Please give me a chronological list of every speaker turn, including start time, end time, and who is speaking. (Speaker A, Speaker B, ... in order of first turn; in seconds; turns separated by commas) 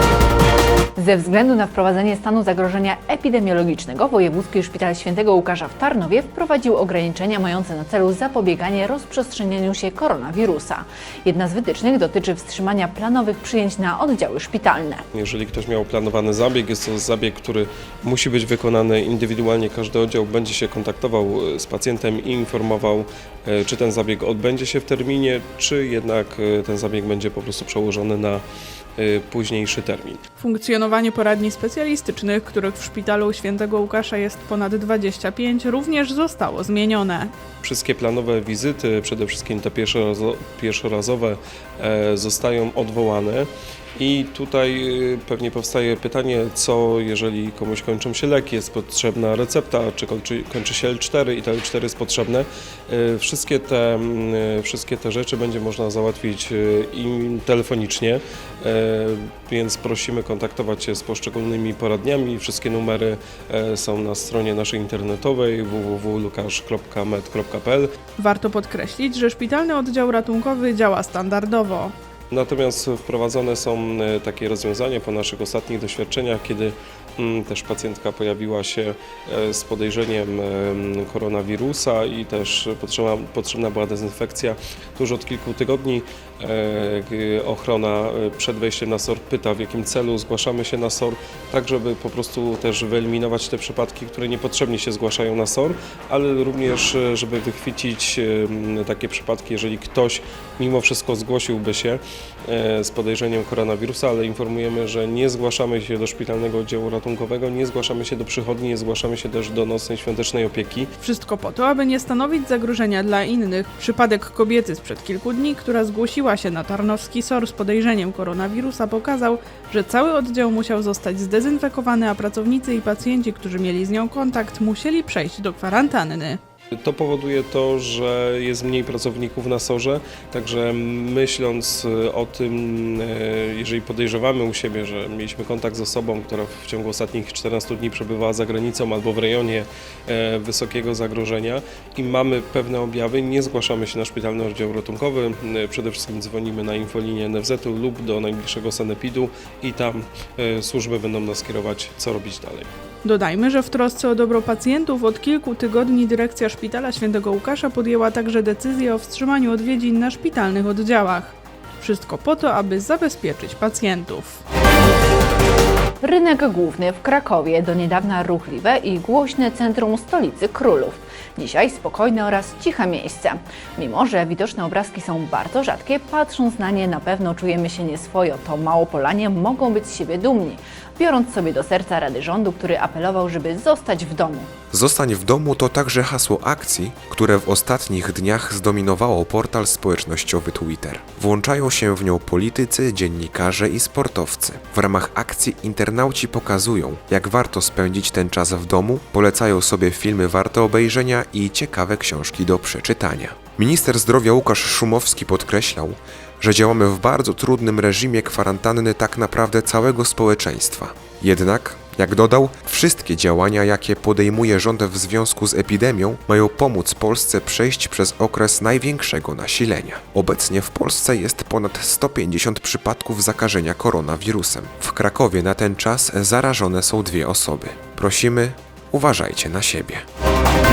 Speaker A: 0.9-15.0, Speaker B: 15.1-28.4, Speaker B: 29.0-30.2, Speaker C: 30.4-37.3, Speaker B: 37.6-68.0, Speaker C: 68.2-71.9, Speaker B: 72.3-110.9, Speaker C: 111.0-126.4, Speaker B: 126.8-152.7, Speaker C: 153.0-164.4, Speaker A: 166.0-184.5, Speaker D: 184.7-230.0